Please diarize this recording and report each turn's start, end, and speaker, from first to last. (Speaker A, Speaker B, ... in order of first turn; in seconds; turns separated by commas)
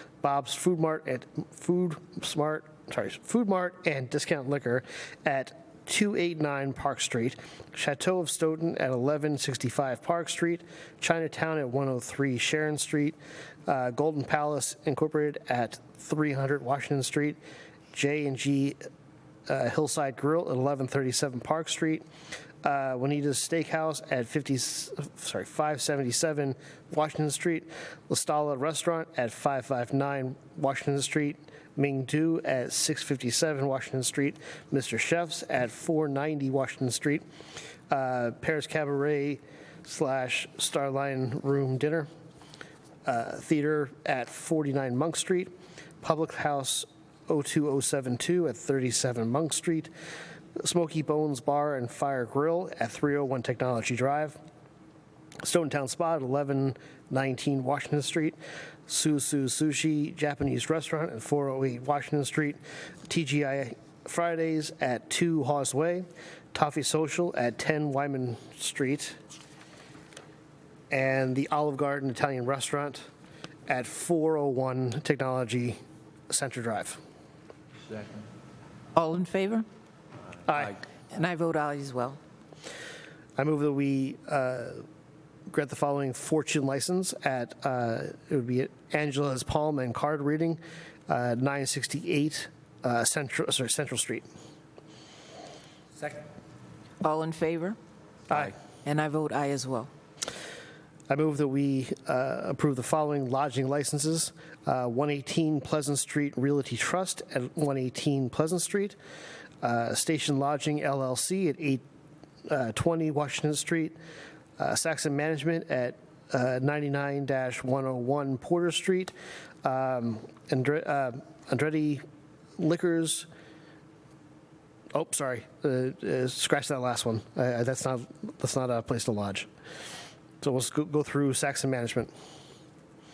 Speaker A: 0.2-17.4, Speaker A: 17.9-18.8, Speaker A: 19.5-22.0, Speaker A: 22.6-37.2, Speaker A: 37.9-42.1, Speaker A: 43.0-49.9, Speaker A: 50.6-54.4, Speaker A: 55.4-69.2, Speaker A: 70.9-73.1, Speaker A: 73.7-75.8, Speaker A: 76.3-77.0, Speaker B: 78.9-79.7, Speaker A: 80.5-80.8, Speaker B: 81.1-82.2, Speaker A: 83.4-84.8, Speaker A: 85.5-94.3, Speaker B: 97.0-97.8, Speaker A: 98.3-98.5, Speaker B: 98.8-99.9, Speaker A: 101.1-109.0, Speaker A: 109.6-111.8, Speaker A: 112.5-114.0, Speaker A: 114.6-122.0, Speaker A: 122.6-123.3, Speaker A: 124.9-129.5, Speaker A: 130.4-132.1